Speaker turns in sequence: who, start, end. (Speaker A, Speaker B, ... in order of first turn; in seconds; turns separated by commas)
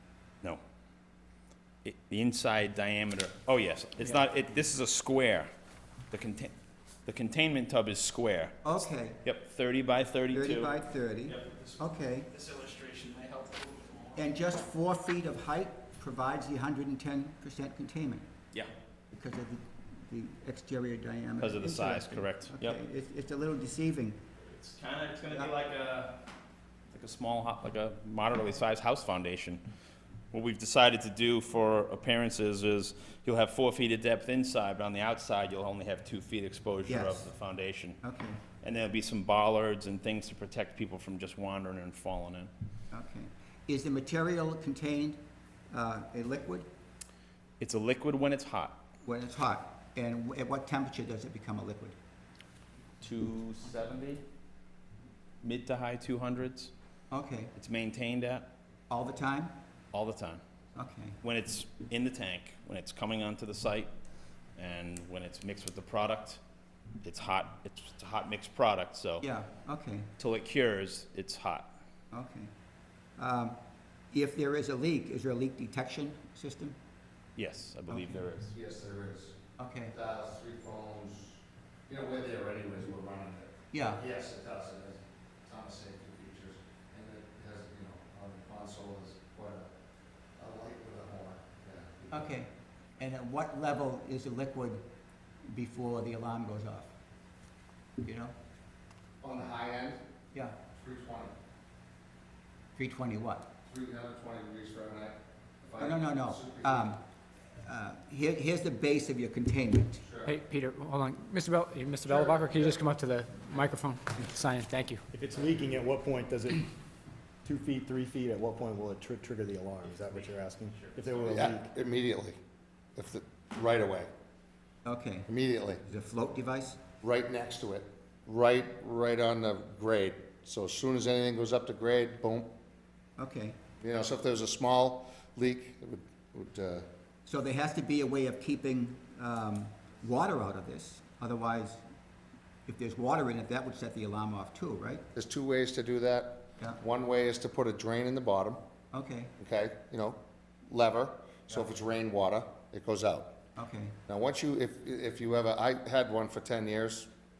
Speaker A: 1.8-5.5, Speaker A: 6.1-6.5, Speaker A: 7.0-10.8, Speaker B: 8.6-9.2, Speaker B: 10.3-12.3, Speaker A: 11.3-11.6, Speaker C: 12.8-13.5, Speaker B: 14.1-18.2, Speaker B: 19.1-24.2, Speaker A: 21.4-22.8, Speaker A: 24.4-26.2, Speaker A: 26.9-29.6, Speaker A: 30.3-38.0, Speaker B: 36.9-37.3, Speaker B: 38.0-38.4, Speaker A: 38.6-42.5, Speaker B: 42.9-45.2, Speaker B: 45.7-46.7, Speaker A: 47.6-48.8, Speaker B: 49.0-52.0, Speaker A: 53.0-54.2, Speaker A: 55.4-56.7, Speaker B: 57.1-57.5, Speaker A: 57.5-58.5, Speaker B: 58.9-59.5, Speaker A: 59.9-60.4, Speaker B: 60.8-61.2, Speaker A: 61.2-63.9, Speaker A: 64.5-66.4, Speaker A: 67.0-69.3, Speaker B: 69.2-70.1, Speaker A: 70.2-71.7, Speaker B: 72.1-72.5, Speaker B: 73.2-73.6, Speaker B: 74.1-76.8, Speaker A: 77.3-78.5, Speaker B: 77.9-78.2, Speaker D: 78.5-89.7, Speaker B: 79.6-79.9, Speaker B: 83.7-84.0, Speaker D: 90.4-92.3, Speaker B: 92.1-94.8, Speaker B: 95.5-96.9, Speaker B: 98.0-98.3, Speaker D: 99.2-100.0, Speaker D: 100.7-101.3, Speaker B: 102.8-103.5, Speaker D: 103.7-106.9, Speaker B: 105.8-107.0, Speaker B: 107.6-110.0, Speaker D: 110.0-110.3, Speaker C: 110.2-115.0, Speaker D: 112.1-112.7, Speaker E: 115.1-116.7, Speaker E: 117.4-121.7, Speaker A: 120.0-121.4, Speaker D: 121.2-122.3, Speaker D: 123.0-124.1, Speaker B: 124.8-125.3, Speaker D: 125.3-125.8, Speaker B: 125.8-126.8, Speaker D: 127.0-132.5, Speaker B: 133.2-133.6, Speaker D: 133.8-136.8, Speaker B: 137.2-141.8, Speaker B: 142.7-145.0, Speaker D: 145.1-148.6, Speaker B: 148.9-149.3, Speaker D: 149.4-153.3, Speaker B: 151.5-151.7, Speaker B: 153.6-154.0, Speaker D: 154.1-157.1